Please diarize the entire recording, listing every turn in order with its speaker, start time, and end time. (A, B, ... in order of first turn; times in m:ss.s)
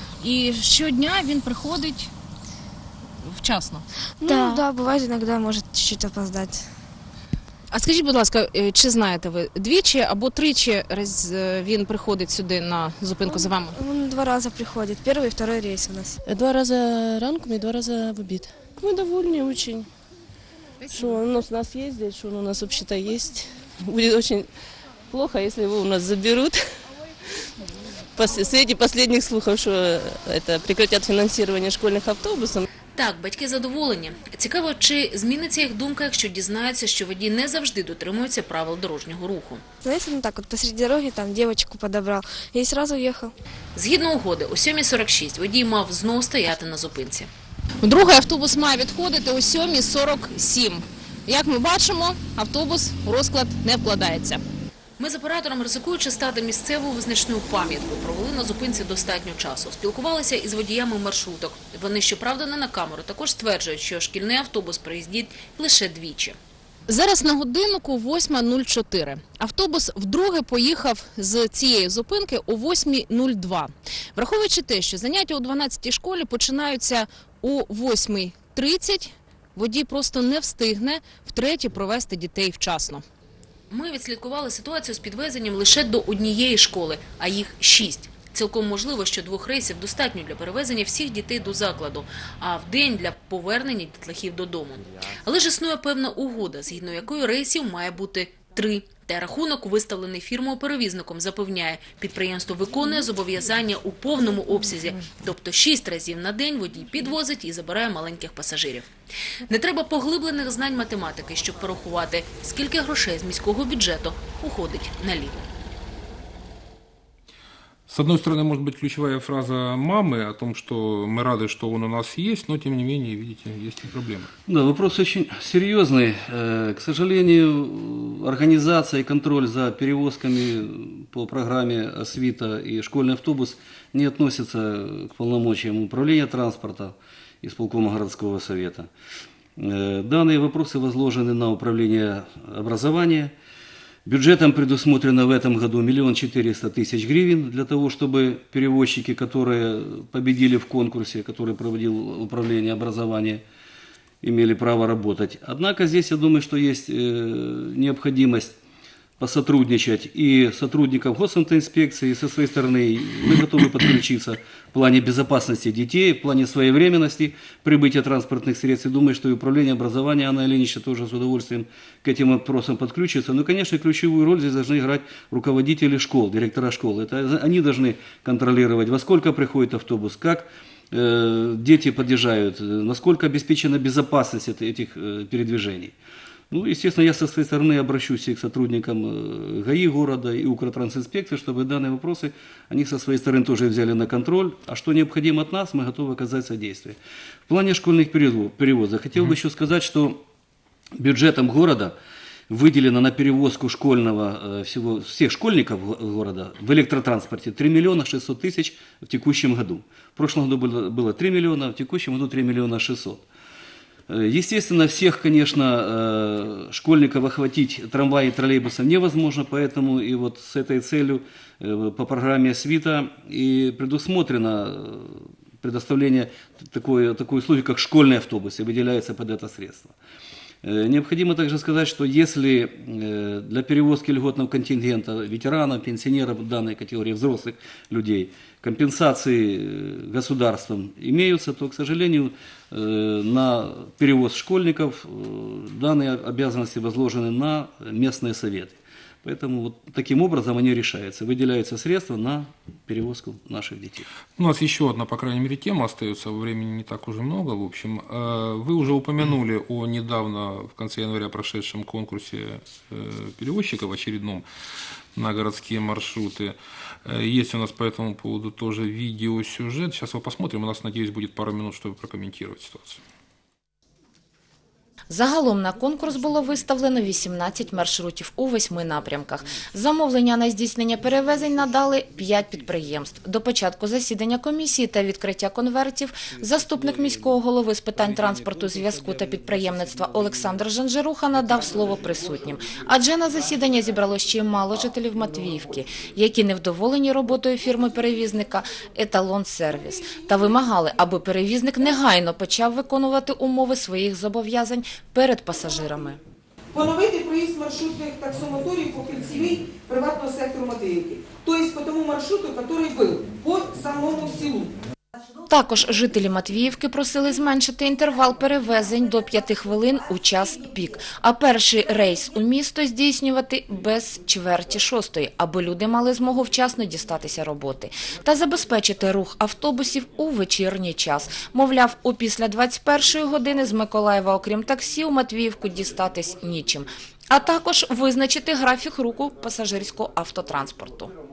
0:00.2-0:02.1 A
0:03.2-0:03.9 A
0:04.2-0:06.7 B
0:07.7-0:13.8 A
0:13.2-0:16.2 B
0:16.3-0:19.9 C
0:20.9-0:24.5 C
0:25.1-0:26.6 C
0:28.2-0:32.7 C
0:33.0-0:39.6 D
0:39.8-0:43.3 B
0:43.8-0:47.3 D
0:47.8-0:54.4 A
0:55.0-1:06.4 D
1:06.9-1:23.0 A
1:23.7-1:48.9 D
1:49.5-1:55.5 D
1:57.9-2:04.3 E
2:04.5-2:18.9 F
2:19.6-2:23.3 F
2:24.0-2:33.4 F
2:34.2-2:38.6 F
2:39.2-3:06.0 F
3:06.5-3:20.2 F
3:21.0-3:22.0 F
3:22.5-3:33.2 F
3:34.1-3:49.9 F
3:50.6-4:14.1 F
4:14.4-4:24.4 E
4:25.2-4:33.0 E
4:35.1-5:06.2 G
5:06.7-5:14.8 H
5:15.5-5:41.1 G